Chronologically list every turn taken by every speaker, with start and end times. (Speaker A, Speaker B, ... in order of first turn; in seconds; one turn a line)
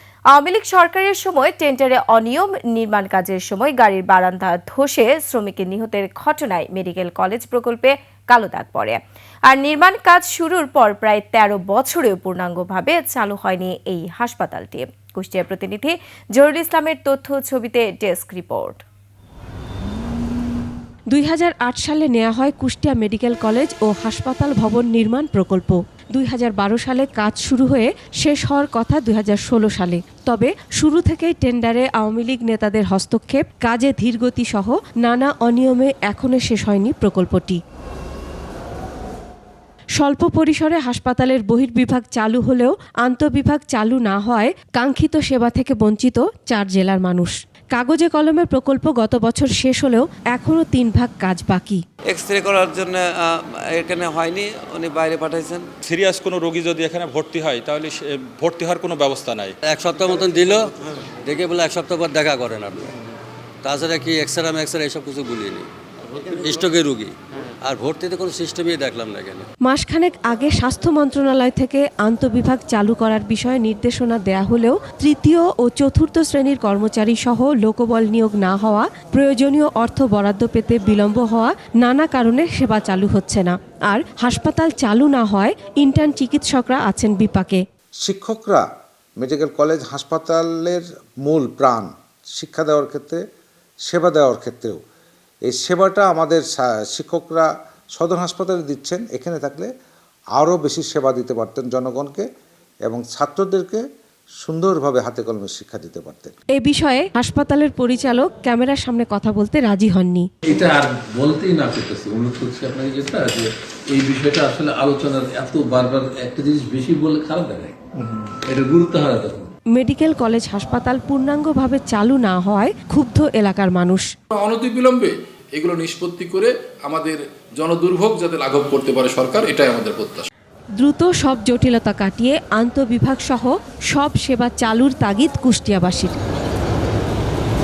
Speaker A: 0.3-18.8
Speaker B: 21.1-37.6
Speaker B: 40.0-51.8
Speaker C: 52.1-55.8
Speaker D: 55.8-59.5
Speaker E: 59.6-62.9
Speaker E: 63.6-69.5
Speaker B: 69.6-87.6
Speaker F: 88.0-88.7
Speaker F: 89.2-93.2
Speaker F: 93.8-94.8
Speaker F: 95.5-99.7
Speaker F: 100.3-102.3
Speaker F: 102.8-103.8
Speaker F: 104.4-106.3
Speaker B: 106.5-110.3
Speaker G: 110.4-117.8
Speaker G: 118.3-119.5
Speaker B: 119.7-124.1
Speaker H: 124.3-130.3
Speaker B: 130.8-136.2